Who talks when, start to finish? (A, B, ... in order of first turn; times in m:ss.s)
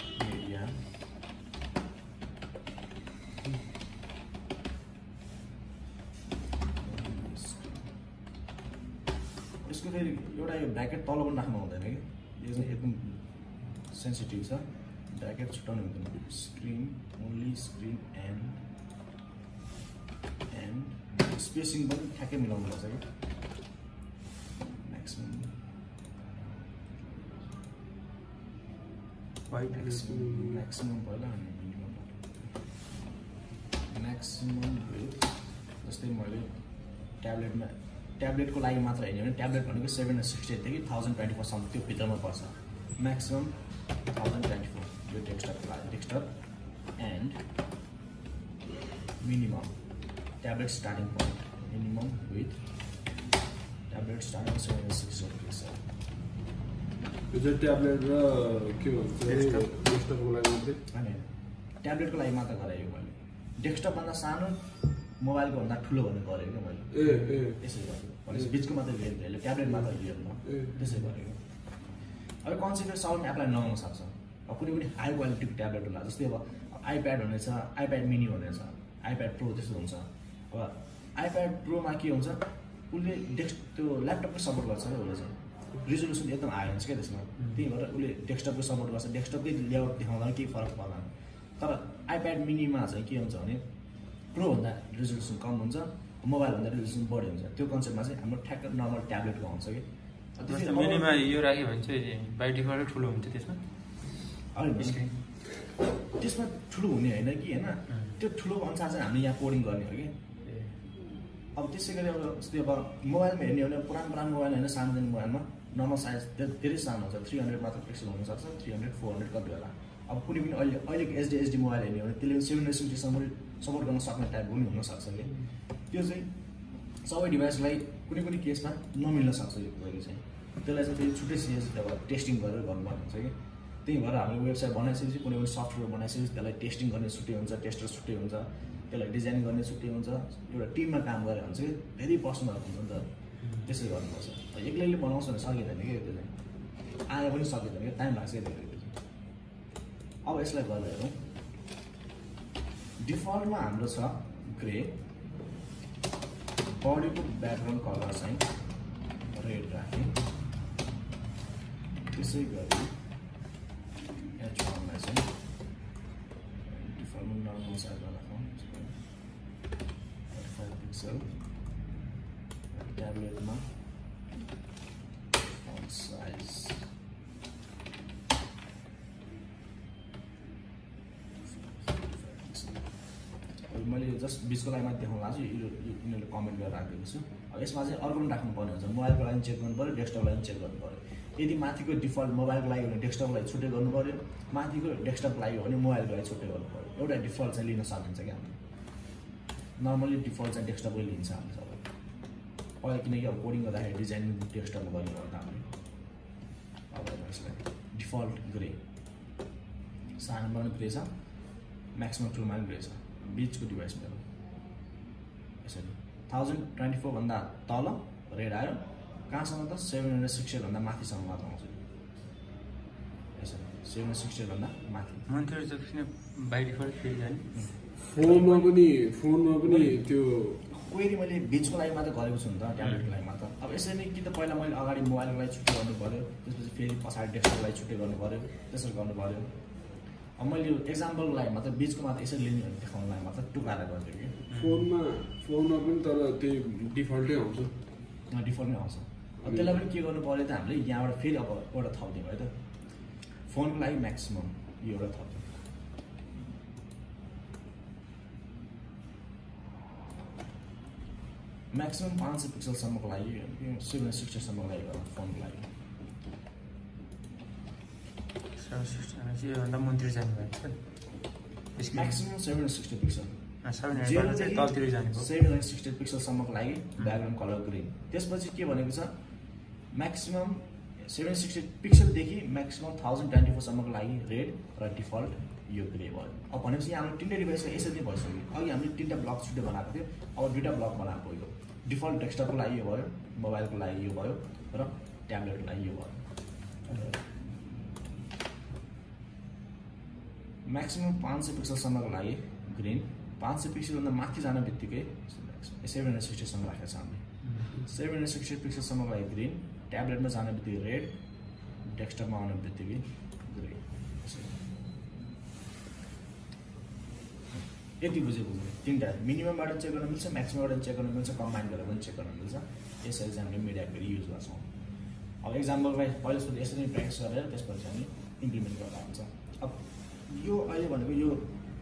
0:00.2-0:00.8 A
0:06.8-0:07.8 A
0:09.6-0:13.2 A
0:13.9-0:18.6 A
0:20.5-0:23.0 A
0:24.8-0:25.5 A
0:29.5-0:29.9 B
0:29.7-0:32.2 A
0:29.8-0:30.6 C
0:33.9-0:36.5 A
0:37.2-0:46.3 A
0:47.0-0:47.4 A
0:49.2-0:49.7 A
0:50.4-0:52.6 A
0:53.9-0:55.8 A
0:57.3-1:00.8 C
0:59.3-0:59.6 B
1:00.9-1:01.3 A
1:01.8-1:11.4 A
1:06.9-1:07.6 C
1:10.4-1:10.7 C
1:12.4-1:33.6 A
1:34.3-1:41.1 A
1:40.5-1:43.6 B
1:44.5-1:45.0 A
1:44.8-1:45.1 B
1:46.1-1:50.1 A
1:50.4-1:50.7 B
1:51.5-2:05.3 A
2:05.9-2:06.3 A
2:07.0-2:23.1 A
2:23.6-2:26.3 A
2:27.1-2:29.0 A
2:30.2-2:31.2 A
2:33.0-2:35.0 A
2:36.6-2:38.5 A
2:39.3-2:40.2 A
2:42.1-2:42.9 A
2:44.4-2:45.3 A
2:46.6-2:48.9 A
2:50.3-2:51.3 A
2:52.7-2:53.7 A
2:55.5-2:56.8 A
3:01.4-3:02.9 A
3:03.7-3:18.6 A
3:19.8-3:21.8 A
3:22.8-3:25.7 A
3:26.9-3:28.8 A
3:30.2-3:31.1 A
3:31.9-3:34.2 A
3:35.6-3:41.8 A
3:43.4-3:45.2 A
3:45.3-3:47.5 B
3:47.5-3:48.6 A
3:48.0-3:50.6 C
3:49.6-3:49.9 A
3:50.7-3:59.5 A
4:00.4-4:04.4 A
4:04.5-4:07.7 C
4:08.3-4:12.5 A
4:09.4-4:09.8 C
4:13.4-4:15.5 A
4:21.7-4:25.7 A
4:28.5-4:30.8 B
4:31.8-4:32.1 B
4:31.9-4:33.3 A
4:33.6-4:35.3 B
4:33.9-4:39.2 A
4:39.9-4:56.2 A
4:56.8-4:57.2 A
5:00.6-5:07.2 A
5:07.8-5:11.1 A
5:11.8-5:14.6 A
5:17.5-5:24.7 A
5:25.4-5:31.5 A